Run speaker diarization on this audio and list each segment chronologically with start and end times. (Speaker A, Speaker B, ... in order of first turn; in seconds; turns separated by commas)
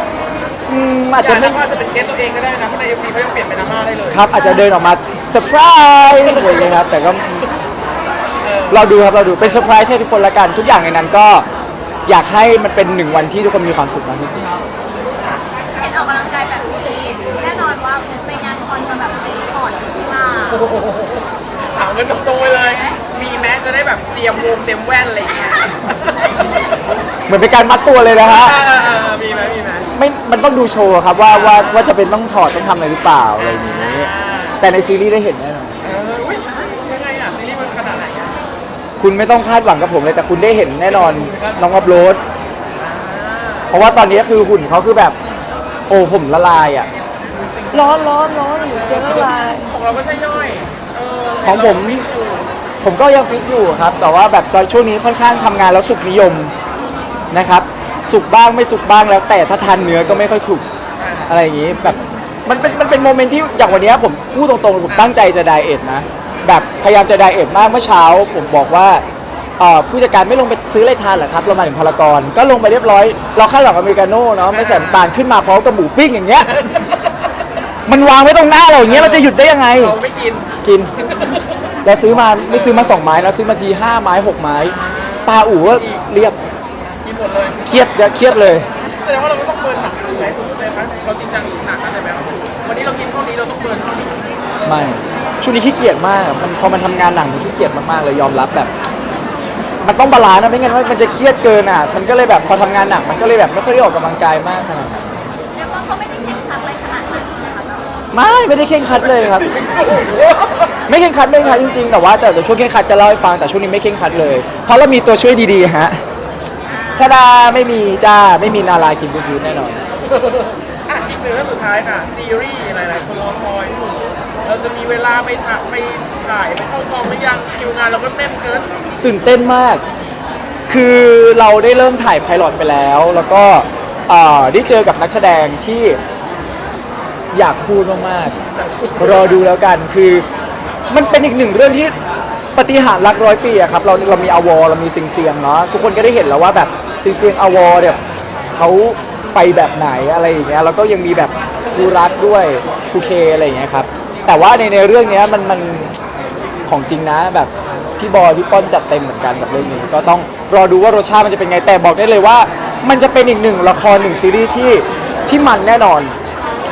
Speaker A: 0.7-1.6, Speaker B: 1.2-4.3, Speaker A: 4.1-7.5, Speaker B: 6.2-6.8, Speaker B: 8.4-9.7, Speaker A: 8.7-11.5, Speaker A: 12.1-14.5, Speaker C: 15.8-20.7, Speaker B: 20.5-26.8, Speaker A: 27.3-28.6, Speaker B: 28.2-29.9, Speaker A: 30.0-35.8, Speaker B: 31.3-32.0, Speaker B: 33.4-34.7, Speaker B: 35.8-38.4, Speaker A: 39.0-42.2, Speaker B: 40.8-42.0, Speaker B: 42.8-44.0, Speaker A: 43.7-45.2, Speaker A: 45.9-46.9, Speaker B: 47.3-52.5, Speaker A: 47.7-49.7, Speaker A: 51.4-52.1, Speaker A: 52.8-56.5, Speaker A: 57.3-60.6, Speaker B: 61.0-61.4, Speaker A: 61.3-69.0, Speaker B: 62.5-63.2, Speaker B: 64.9-65.2, Speaker A: 69.6-76.5, Speaker B: 74.5-75.1, Speaker B: 76.5-77.2, Speaker A: 77.9-80.0, Speaker B: 78.8-81.5, Speaker A: 80.6-80.9, Speaker A: 81.8-86.4, Speaker B: 82.5-83.0, Speaker B: 84.6-86.1, Speaker B: 87.0-88.5, Speaker A: 87.7-88.7, Speaker B: 89.0-94.9, Speaker A: 94.7-98.7, Speaker A: 99.8-105.2, Speaker C: 105.5-108.0, Speaker A: 108.1-109.5, Speaker B: 109.0-110.8, Speaker A: 110.9-116.0, Speaker B: 111.4-111.8, Speaker C: 116.7-117.3, Speaker A: 117.0-119.8, Speaker B: 120.0-128.7, Speaker A: 129.0-129.8, Speaker A: 130.7-136.0, Speaker A: 137.3-138.3, Speaker B: 138.5-139.5, Speaker A: 139.0-140.3, Speaker B: 140.9-141.3, Speaker A: 140.9-141.9, Speaker A: 142.6-156.0, Speaker A: 156.7-166.1